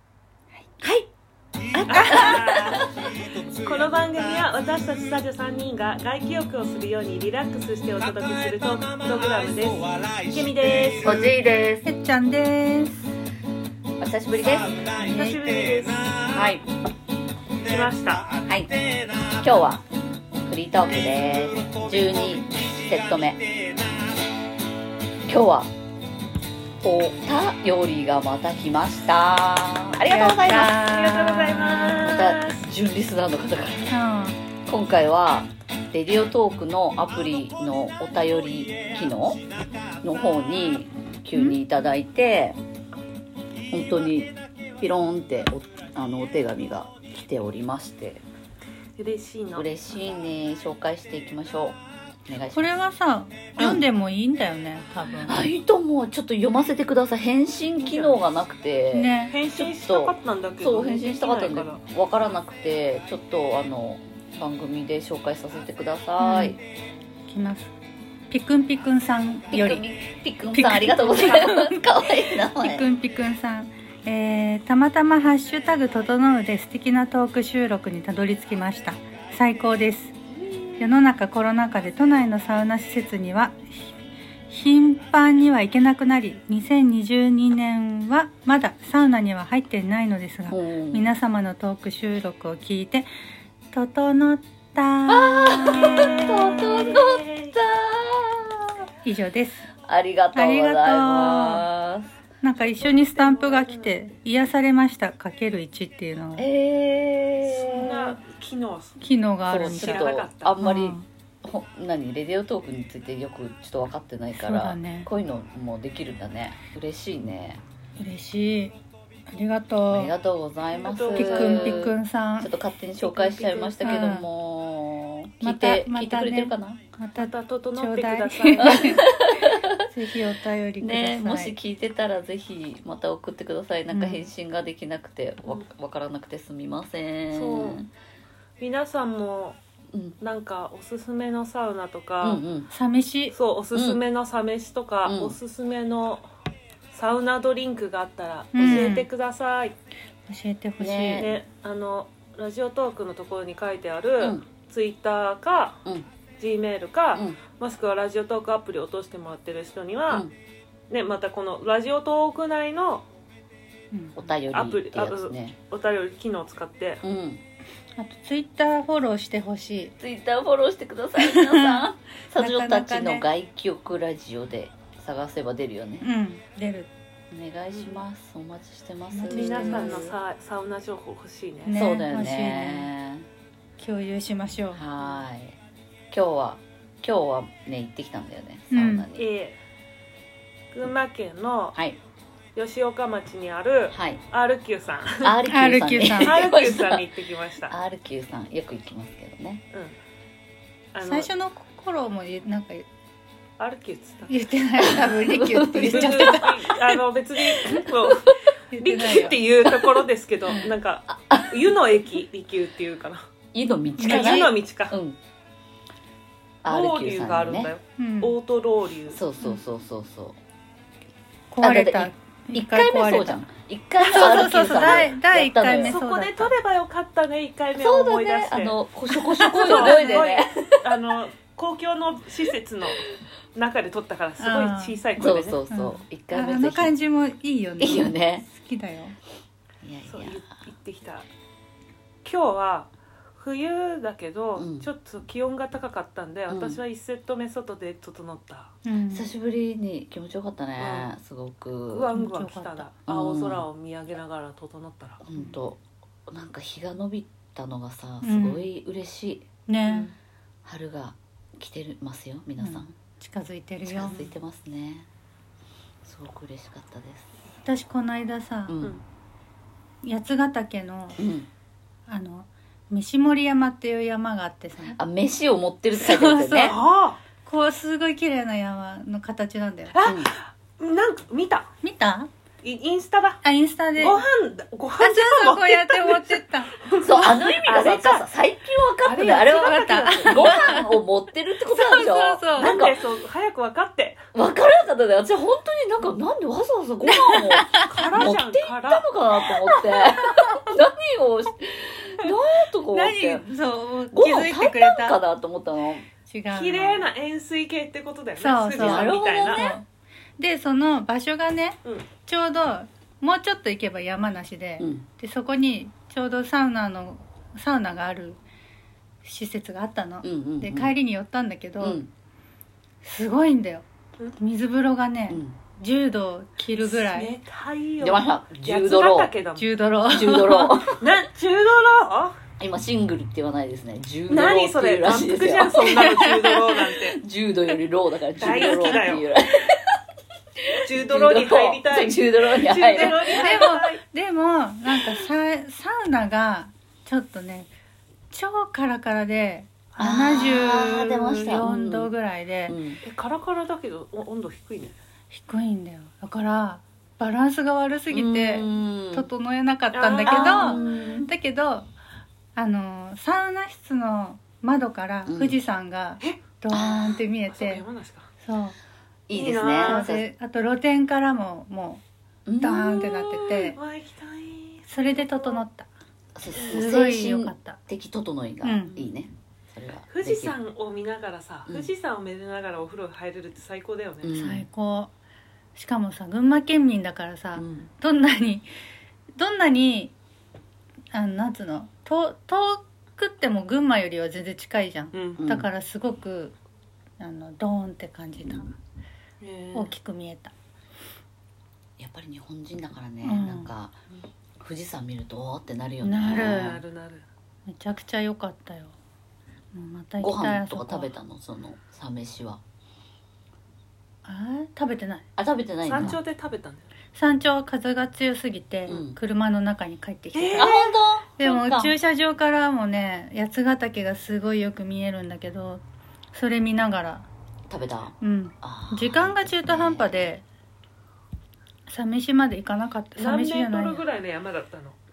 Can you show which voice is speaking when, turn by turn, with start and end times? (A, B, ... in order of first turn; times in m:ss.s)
0:00.8-0:01.1 A
0:01.7-0:02.9 A
0:01.9-0:02.9 B
0:02.0-0:02.2 C
0:03.4-0:11.3 B
0:11.0-0:11.8 A
0:11.8-0:13.1 C
0:14.0-0:14.8 A
0:15.0-0:15.4 C
0:15.0-0:16.3 B
0:16.3-0:16.6 A
0:17.6-0:18.3 B
0:18.4-0:18.7 A
0:19.4-0:19.8 A
0:20.4-0:23.4 A
0:25.3-0:25.7 A
0:26.8-0:30.8 A
0:30.0-0:32.0 C
0:30.8-0:32.6 B
0:32.0-0:33.9 A
0:33.9-0:34.4 C
0:34.7-0:39.4 A
0:40.0-0:42.6 A
0:43.7-0:48.2 A
0:49.0-0:49.7 B
0:49.6-0:52.7 A
0:52.5-0:55.5 C
0:53.6-0:53.8 A
0:55.2-1:06.6 A
0:57.8-0:58.2 B
0:58.9-0:59.4 C
0:59.3-1:01.8 B
1:06.2-1:06.6 C
1:07.3-1:07.7 C
1:08.3-1:09.8 C
1:09.5-1:12.9 A
1:10.5-1:11.8 C
1:12.5-1:20.1 C
1:20.8-1:23.9 C
1:24.5-1:33.1 C
1:30.5-1:31.1 A
1:33.7-1:35.9 C
1:35.1-1:38.7 A
1:35.6-1:37.6 B
1:39.0-1:39.6 C
1:39.8-1:42.1 A
1:40.3-1:41.7 C
1:42.4-1:46.5 C
1:42.6-1:44.1 B
1:46.4-1:48.0 A
1:47.4-1:50.6 B
1:47.8-1:48.1 C
1:49.0-1:51.0 C
1:49.5-1:57.6 A
1:54.3-1:55.1 C
1:58.0-1:58.7 C
1:59.3-2:00.1 C
1:59.9-2:06.8 A
2:00.7-2:01.8 B
2:01.1-2:02.5 C
2:03.0-2:04.0 B
2:03.8-2:04.2 C
2:05.4-2:11.5 C
2:07.2-2:09.0 B
2:08.6-2:09.7 A
2:10.8-2:17.9 A
2:13.9-2:14.3 C
2:17.3-2:17.8 B
2:18.6-2:19.6 B
2:19.9-2:20.2 A
2:20.2-2:22.4 B
2:22.2-2:22.7 A
2:22.7-2:23.3 C
2:23.3-2:26.2 B
2:23.7-2:24.0 A
2:25.0-2:25.4 A
2:26.9-2:29.7 B
2:28.5-2:29.1 C
2:28.6-2:28.9 A
2:30.3-2:31.3 C
2:30.8-2:31.4 A
2:31.1-2:35.8 B
2:36.4-2:40.3 B
2:37.1-2:37.4 A
2:40.9-2:43.0 B
2:43.9-2:44.2 C
2:44.1-2:45.5 A
2:44.5-2:47.0 B
2:47.0-2:47.4 A
2:48.0-2:49.9 C
2:50.0-2:56.1 A
2:51.2-2:53.3 C
2:56.0-2:56.9 C
2:57.3-3:00.1 A
2:57.7-2:58.0 B
2:59.1-3:00.1 C
2:59.3-3:01.8 B
3:01.6-3:02.9 C
3:01.7-3:03.2 A
3:03.8-3:04.8 C
3:04.7-3:05.6 A
3:06.1-3:09.3 A
3:08.7-3:09.0 C
3:09.2-3:09.6 B
3:10.7-3:11.8 B
3:12.6-3:15.4 B
3:13.9-3:14.2 A
3:15.2-3:17.0 A
3:15.5-3:16.4 C
3:16.2-3:17.7 B
3:17.7-3:19.6 A
3:20.9-3:21.3 B
3:21.0-3:22.8 C
3:23.6-3:24.3 B
3:24.3-3:26.6 C
3:24.8-3:26.7 A
3:25.8-3:33.2 B
3:27.5-3:28.3 A
3:28.7-3:29.4 C
3:30.5-3:31.7 A
3:33.5-3:35.2 A
3:34.0-3:34.5 C
3:34.0-3:35.0 B
3:36.6-3:37.7 A
3:36.6-3:39.2 B
3:38.0-3:38.4 C
3:39.1-3:40.4 A
3:41.5-3:43.4 C
3:41.6-3:46.0 A
3:44.0-3:46.5 C
3:44.1-3:45.0 B
3:45.8-3:55.6 B
3:47.7-3:50.8 A
3:49.6-3:50.3 C
3:54.4-3:55.0 C
3:55.2-3:56.9 A
3:55.7-3:59.1 C
3:57.8-3:58.5 A
3:59.8-4:00.4 A
4:00.1-4:01.3 B
4:02.2-4:08.7 B
4:04.6-4:04.9 A
4:06.5-4:06.8 A
4:08.8-4:09.3 C
4:09.1-4:12.1 A
4:10.8-4:11.1 B
4:11.9-4:15.2 B
4:12.1-4:12.9 C
4:13.1-4:13.7 A
4:15.2-4:19.4 A
4:18.2-4:18.7 C
4:19.7-4:20.1 C
4:19.8-4:20.1 B
4:20.6-4:22.9 A
4:22.6-4:24.3 C
4:23.9-4:25.1 A
4:26.0-4:27.3 A
4:27.6-4:28.8 C
4:28.7-4:29.0 A
4:30.0-4:31.2 C
4:31.2-4:31.5 A
4:32.1-4:35.0 C
4:34.9-4:36.8 A
4:35.9-4:36.8 C
4:36.6-4:37.2 B
4:37.4-4:40.0 C
4:39.9-4:41.7 B
4:40.0-4:40.3 A
4:41.8-4:42.3 C
4:42.6-4:43.4 B
4:43.4-4:44.2 C
4:44.0-4:48.2 B
4:45.0-4:46.7 C
4:47.0-4:53.0 A
4:49.0-4:50.7 B
4:49.2-4:50.9 C
4:51.7-4:52.8 C
4:52.6-4:54.2 B
4:54.3-5:03.4 A
4:57.1-4:58.1 C
4:57.8-4:59.1 B
5:02.9-5:05.2 C
5:04.1-5:06.0 A
5:06.3-5:07.1 C
5:06.5-5:09.6 B
5:08.4-5:09.8 C
5:08.7-5:09.8 A
5:10.4-5:18.4 C
5:11.8-5:12.1 B
5:14.8-5:15.0 A
5:19.2-5:22.0 C
5:20.2-5:20.9 A
5:21.8-5:22.1 A
5:23.0-5:23.8 C
5:24.4-5:27.3 C
5:25.3-5:25.6 A
5:26.8-5:29.7 B
5:28.0-5:29.3 A
5:29.6-5:30.9 C
5:30.1-5:31.0 A
5:31.0-5:32.4 B
5:32.6-5:36.4 A
5:34.3-5:37.2 B
5:37.2-5:40.0 A
5:38.4-5:39.2 B
5:38.4-5:39.0 C
5:40.6-5:43.7 A
5:40.8-5:44.0 B
5:42.9-5:47.7 C
5:48.3-5:52.8 C
5:50.0-5:52.1 A
5:52.7-5:53.0 A
5:53.0-5:54.9 B
5:55.3-6:01.9 C
5:58.1-5:59.3 A
5:59.9-6:01.2 B
6:00.2-6:01.3 A
6:02.5-6:07.8 C
6:05.2-6:05.6 A
6:06.7-6:07.2 A
6:07.4-6:08.3 B
6:08.4-6:08.7 C
6:09.3-6:10.2 A
6:09.3-6:10.1 B
6:09.7-6:12.0 C
6:12.4-6:13.6 A
6:12.6-6:13.8 C
6:13.7-6:15.6 B
6:14.9-6:15.9 C
6:16.3-6:20.6 A
6:16.7-6:17.8 C
6:18.6-6:19.0 C
6:20.1-6:24.4 B
6:24.2-6:24.7 A
6:24.3-6:25.1 C
6:25.7-6:28.7 C
6:27.6-6:27.9 A
6:29.3-6:30.1 C
6:31.1-6:36.6 C
6:35.1-6:35.4 B
6:35.4-6:35.7 A
6:37.2-6:38.8 C
6:39.4-6:40.0 B
6:39.7-6:40.5 C
6:42.0-6:44.0 A
6:43.2-6:43.7 C
6:44.6-6:46.8 A
6:46.0-6:46.8 C
6:46.3-6:47.2 B
6:47.7-6:48.9 C
6:49.7-6:51.1 C
6:50.2-6:52.6 A
6:54.2-6:55.2 C
6:55.4-6:56.2 A
6:55.8-6:56.9 B
6:57.1-7:00.8 C
6:58.9-6:59.2 A
7:00.3-7:00.9 B
7:00.6-7:01.9 A
7:01.4-7:07.2 C
7:07.7-7:10.3 A
7:08.2-7:10.4 C
7:11.8-7:14.0 C
7:13.2-7:15.0 B